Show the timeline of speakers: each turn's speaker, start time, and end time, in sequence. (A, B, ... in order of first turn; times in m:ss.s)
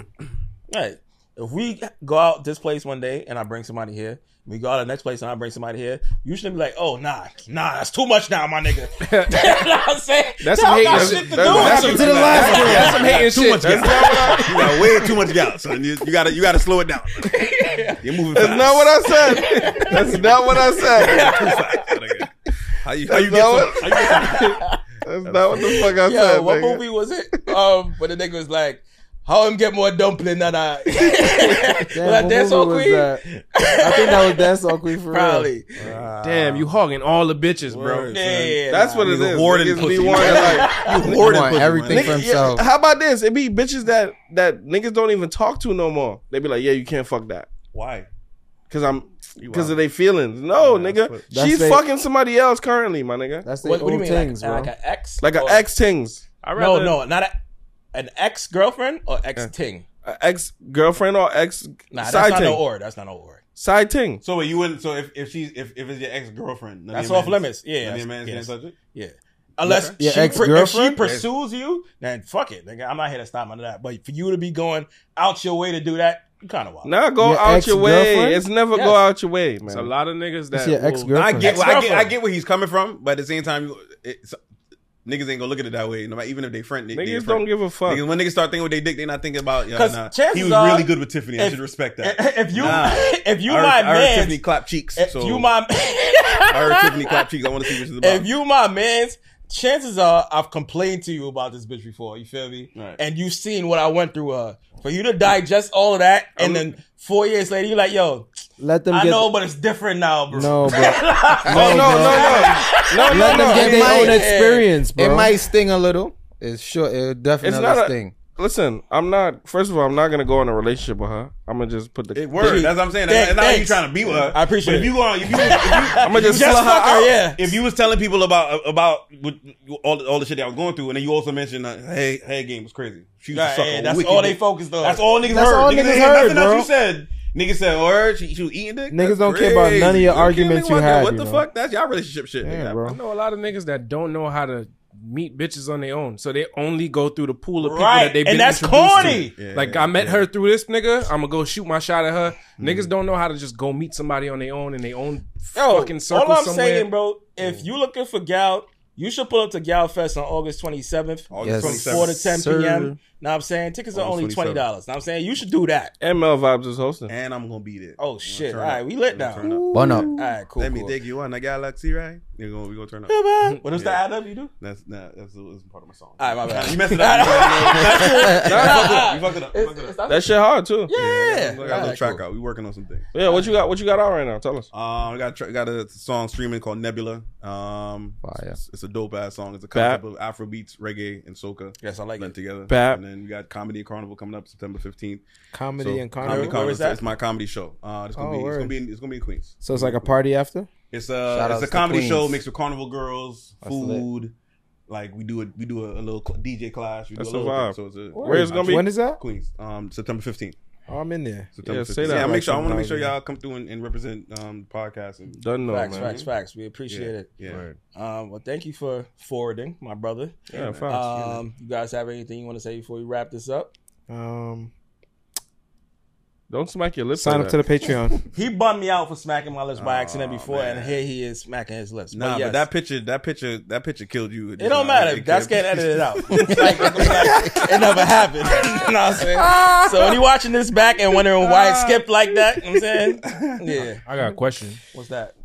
0:00.7-0:12.7 A
0:09.0-0:09.7 B
0:10.4-0:15.2 B
0:10.8-0:12.1 C
0:11.0-0:19.1 D
0:11.6-0:13.1 E
0:13.7-0:14.4 C
0:17.3-0:18.0 A
0:18.3-0:21.4 C
0:19.2-0:20.2 A
0:19.9-0:26.1 D
0:20.8-0:22.2 A
0:23.1-0:26.8 C
0:23.8-0:24.8 A
0:26.0-0:34.5 A
0:31.9-0:35.5 E
0:35.1-0:35.9 A
0:35.8-0:36.7 D
0:36.2-0:38.1 B
0:37.6-0:42.2 D
0:38.1-0:39.1 A
0:38.7-0:40.8 C
0:40.1-0:41.2 A
0:41.0-0:42.6 F
0:41.9-0:47.5 C
0:41.9-0:42.4 A
0:47.7-0:48.1 D
0:48.7-0:53.5 C
0:49.4-0:49.8 D
0:50.5-0:51.3 D
0:51.3-0:51.8 E
0:53.4-0:54.7 E
0:53.6-0:55.6 A
0:55.2-0:56.2 C
0:56.4-0:57.0 B
0:56.5-0:57.4 A
0:57.9-0:59.9 A
1:00.0-1:02.6 C
1:01.9-1:03.4 A
1:03.6-1:04.2 C
1:04.2-1:08.8 D
1:06.9-1:16.9 A
1:09.7-1:10.5 D
1:09.7-1:11.0 E
1:11.0-1:11.3 D
1:16.8-1:19.9 C
1:17.2-1:18.5 E
1:18.7-1:19.0 A
1:19.7-1:21.2 B
1:20.5-1:21.6 E
1:21.1-1:24.4 D
1:21.4-1:22.1 A
1:25.0-1:35.5 D
1:26.9-1:28.1 C
1:29.7-1:34.4 A
1:35.0-1:37.2 A
1:36.5-1:38.3 D
1:38.0-1:48.3 A
1:42.7-1:43.0 D
1:48.6-1:49.3 E
1:48.9-1:54.7 A
1:50.3-1:52.5 E
1:51.5-1:53.9 C
1:52.7-1:54.1 D
1:53.0-1:55.4 E
1:53.5-1:54.2 F
1:55.0-1:58.2 F
1:57.4-2:02.7 C
2:02.1-2:06.8 D
2:02.4-2:07.6 A
2:06.0-2:07.2 C
2:07.4-2:22.9 D
2:13.3-2:15.0 A
2:15.2-2:16.7 E
2:18.9-2:21.4 E
2:22.4-2:23.0 E
2:22.9-2:36.9 B
2:27.6-2:29.4 A
2:29.0-2:30.2 D
2:32.6-2:32.9 D
2:35.5-2:45.9 A
2:37.4-2:37.7 D
2:41.3-2:42.3 D
2:41.4-2:43.0 F
2:43.9-2:44.6 D
2:46.0-2:47.1 C
2:47.1-2:54.0 D
2:48.0-2:51.0 A
2:49.4-2:50.0 E
2:49.7-2:50.4 F
2:53.1-2:54.5 A
2:54.6-3:00.0 D
2:56.2-3:02.2 A
2:58.5-2:59.0 C
3:00.1-3:00.9 C
3:00.9-3:03.1 D
3:01.6-3:02.1 F
3:03.1-3:04.7 C
3:03.2-3:03.5 A
3:04.7-3:15.2 D
3:08.2-3:08.6 F
3:09.7-3:10.0 C
3:11.8-3:12.3 A
3:12.7-3:13.0 C
3:15.5-3:16.7 E
3:15.8-3:20.1 D
3:16.2-3:17.0 A
3:18.2-3:18.8 E
3:19.6-3:20.7 E
3:20.9-3:24.3 D
3:21.3-3:22.4 F
3:23.6-3:24.1 F
3:24.9-3:30.6 D
3:27.2-3:28.9 C
3:28.3-3:29.2 E
3:30.9-3:33.1 E
3:31.6-3:36.3 D
3:31.6-3:32.4 C
3:35.4-3:36.2 C
3:35.7-3:37.3 A
3:36.9-3:37.6 D
3:37.5-3:37.8 C
3:37.9-3:43.7 A
3:40.5-3:41.1 C
3:40.5-3:41.4 D
3:44.1-3:44.7 E
3:46.5-3:47.7 C
3:47.1-3:48.2 E
3:48.3-3:52.6 A
3:49.8-3:51.0 D
3:52.1-3:58.0 D
3:54.6-4:04.0 A
3:59.4-4:00.2 D
4:01.4-4:02.1 D
4:03.1-4:03.9 D
4:04.0-4:04.8 B
4:04.9-4:05.3 A